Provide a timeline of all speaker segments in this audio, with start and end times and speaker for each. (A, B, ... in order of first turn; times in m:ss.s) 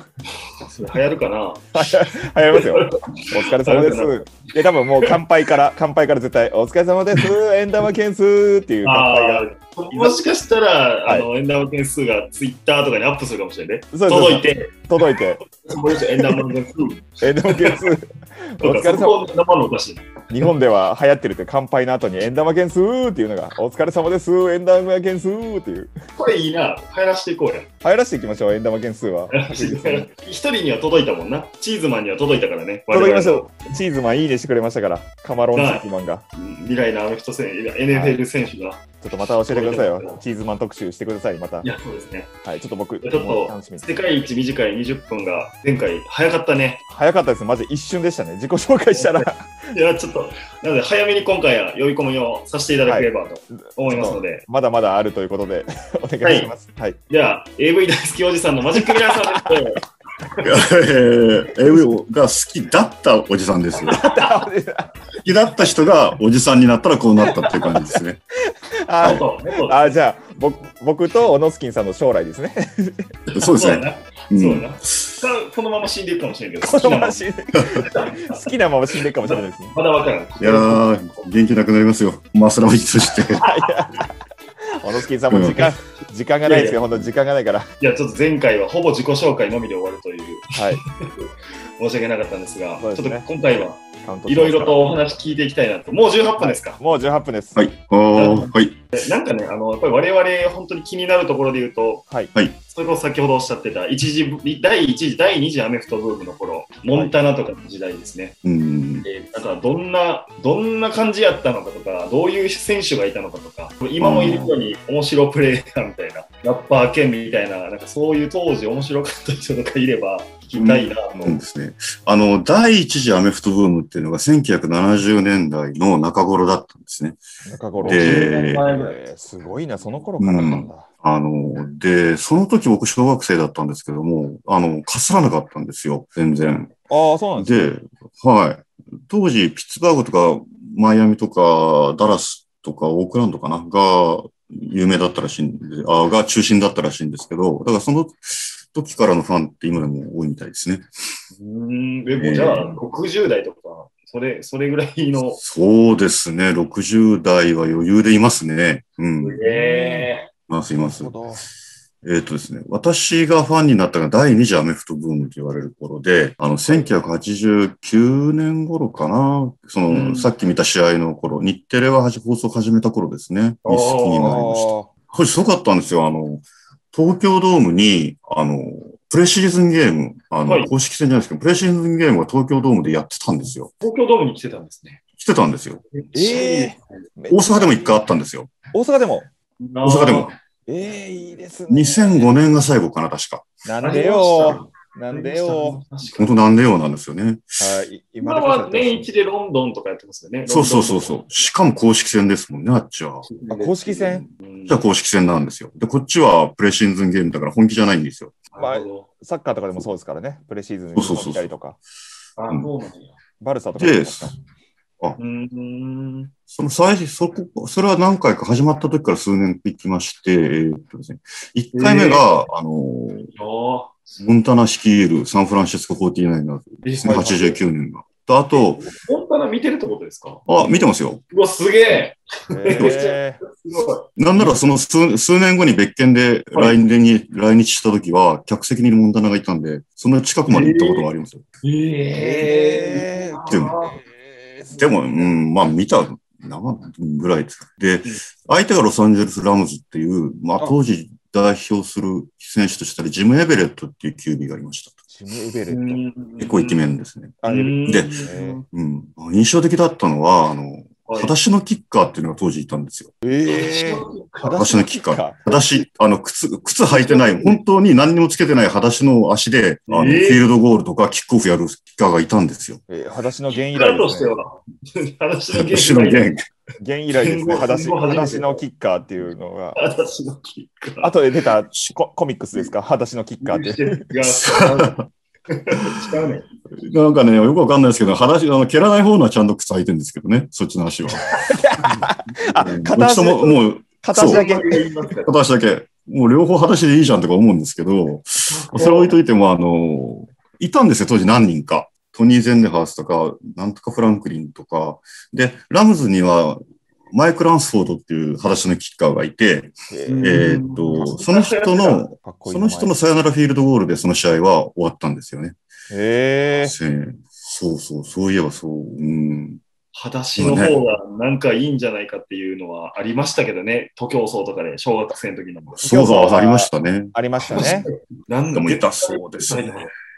0:00.6-0:03.0 A
0:01.7-0:10.2 B
0:03.5-0:04.3 A
0:08.8-0:14.8 A
0:13.9-0:15.4 B
0:15.6-0:17.8 A
0:17.2-0:18.0 B
0:18.6-0:19.3 B
0:18.6-0:20.2 A
0:20.3-0:25.9 B
0:26.2-0:27.7 A
0:27.8-0:30.1 B
0:29.3-0:33.7 A
0:32.9-0:36.2 B
0:35.5-0:35.8 A
0:36.4-0:38.9 A
0:37.9-0:38.2 B
0:39.0-0:41.7 B
0:39.5-0:40.2 A
0:41.6-0:42.3 A
0:42.4-0:43.9 B
0:43.0-0:46.8 A
0:46.9-0:49.8 B
0:49.0-0:54.4 A
0:52.8-0:57.0 B
0:56.2-0:56.5 A
0:57.1-0:59.8 A
0:58.8-0:59.6 B
1:00.4-1:04.0 C
1:03.9-1:04.9 B
1:03.9-1:04.4 A
1:05.2-1:08.2 C
1:07.3-1:08.0 B
1:08.5-1:13.1 B
1:09.0-1:10.0 A
1:13.3-1:15.2 C
1:13.4-1:17.3 A
1:16.6-1:19.7 B
1:17.6-1:17.8 C
1:17.8-1:18.4 A
1:19.2-1:20.9 A
1:20.4-1:23.5 C
1:23.2-1:24.1 B
1:24.8-1:27.7 B
1:25.3-1:25.6 C
1:26.4-1:26.8 A
1:27.8-1:31.2 A
1:30.5-1:30.8 B
1:31.8-1:36.8 A
1:32.8-1:33.2 B
1:34.0-1:34.9 B
1:36.4-1:37.6 B
1:37.5-1:38.9 C
1:38.1-1:42.0 A
1:42.7-1:48.3 A
1:48.4-1:49.0 C
1:49.0-2:01.4 A
1:54.0-1:54.5 C
1:54.2-1:54.5 B
2:00.5-2:07.2 C
2:07.4-2:10.9 B
2:07.8-2:08.7 C
2:07.8-2:09.0 A
2:10.2-2:16.7 C
2:16.9-2:17.7 B
2:17.4-2:30.9 C
2:31.3-2:35.4 A
2:32.2-2:32.7 C
2:35.4-2:39.4 C
2:39.2-2:40.3 A
2:39.4-2:40.1 B
2:40.5-2:41.2 C
2:40.8-2:41.5 B
2:42.0-3:03.7 C
2:46.7-2:47.0 A
2:49.9-2:50.3 A
2:53.6-2:54.4 A
2:54.2-2:54.9 B
3:00.4-3:00.7 A
3:03.8-3:05.0 A
3:05.2-3:05.8 C
3:05.9-3:07.0 A
3:06.1-3:08.0 B
3:07.3-3:08.5 C
3:08.7-3:09.3 B
3:09.6-3:10.3 A
3:09.8-3:10.3 C
3:10.7-3:12.2 B
3:11.7-3:13.5 C
3:13.6-3:15.8 B
3:13.8-3:16.4 A
3:16.1-3:17.7 C
3:17.6-3:19.1 B
3:18.2-3:21.4 A
3:20.4-3:23.3 C
3:23.2-3:24.8 A
3:23.5-3:24.2 B
3:24.0-3:28.4 C
3:28.5-3:29.1 A
3:28.6-3:31.8 B
3:30.9-3:31.5 C
3:32.4-3:33.2 A
3:33.4-3:34.3 B
3:33.8-3:34.3 C
3:35.2-3:36.3 A
3:36.5-3:43.3 C
3:41.7-3:42.3 A
3:43.3-3:44.2 A
3:44.2-3:48.8 C
3:46.8-3:47.6 A
3:47.0-3:47.4 B
3:48.5-3:54.6 A
3:50.5-3:51.2 C
3:52.5-3:53.4 B
3:52.7-3:53.0 C
3:54.2-4:01.4 C
4:00.5-4:01.1 A
4:01.6-4:04.0 A
4:02.1-4:05.3 B
4:03.5-4:03.8 C
4:04.8-4:15.0 C
4:15.1-4:16.0 B
4:15.7-4:16.8 A
4:16.4-4:23.1 C
4:17.4-4:18.6 B
4:17.4-4:18.6 A
4:21.1-4:21.3 A
4:23.2-4:25.4 B
4:23.4-4:24.8 A
4:24.5-4:32.8 C
4:26.8-4:27.6 A
4:29.9-4:30.4 A
4:32.9-4:34.4 B
4:33.6-4:36.3 A
4:35.5-4:36.4 C
4:36.8-4:39.8 B
4:37.1-4:38.6 A
4:39.8-4:41.2 A
4:41.0-4:44.0 B
4:43.4-4:46.4 A
4:44.2-4:45.0 C
4:46.7-4:54.4 C
4:51.3-4:54.9 B
4:54.2-4:55.3 A
4:55.2-5:15.6 C
4:58.4-4:59.2 A
5:09.9-5:10.4 B
5:10.1-5:12.1 A
5:12.2-5:12.9 B
5:15.9-5:16.7 B
5:16.6-5:19.6 C
5:19.9-5:25.8 A
5:20.4-5:20.8 C
5:25.8-5:27.8 B
5:25.8-5:27.9 C
5:27.5-5:29.9 A
5:28.5-5:29.7 C